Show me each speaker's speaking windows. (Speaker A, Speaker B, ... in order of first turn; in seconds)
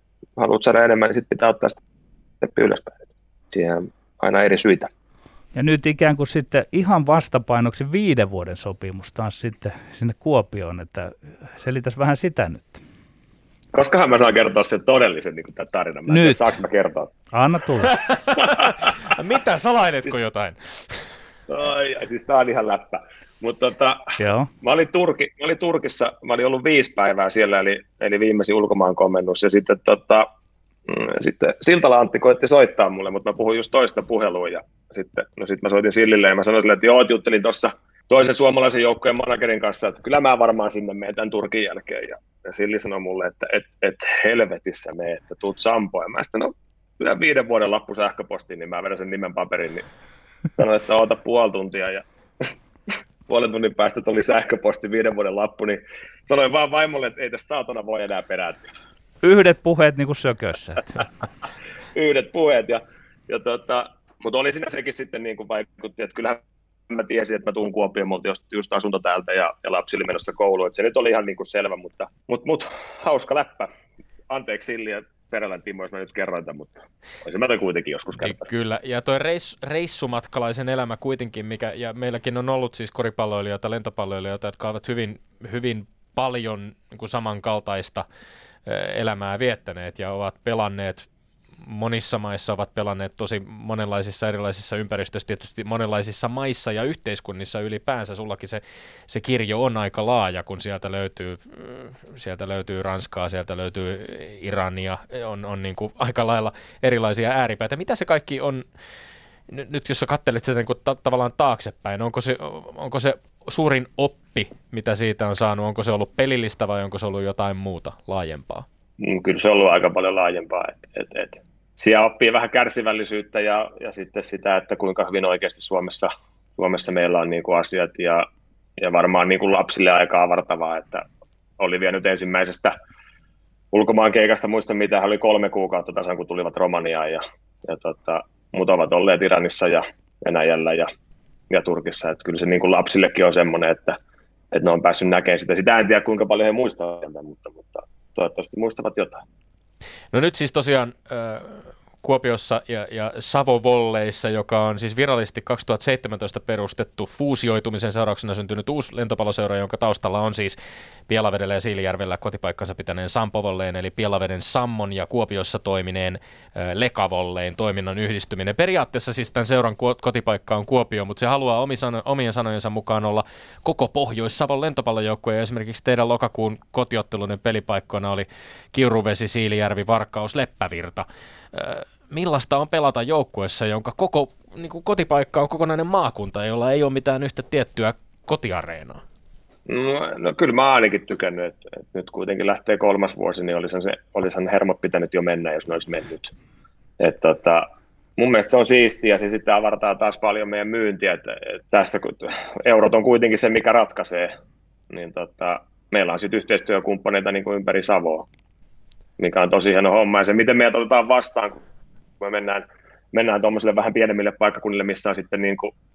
Speaker A: 0.4-1.8, 2.4-4.9, 13.7-17.1, 18.4-19.0, 21.5-30.3, 30.9-49.9, 50.6-52.0, 53.3-58.6, 62.0-73.7, 74.3-78.5, 119.0-128.3, 128.8-131.1, 131.6-132.8, 133.7-140.9, 141.5-144.0, 144.5-149.2, 189.7-196.3, 197.0-197.7, 198.2-204.3, 204.9-208.3, 209.2-211.6, 212.2-215.7
Speaker B: 5.5-12.8, 16.1-16.5, 17.3-17.9, 24.2-24.5, 59.2-61.0
Speaker C: 17.8-21.1, 78.2-88.0, 88.7-91.1, 91.6-108.6, 109.5-118.7, 150.1-160.6, 161.1-189.0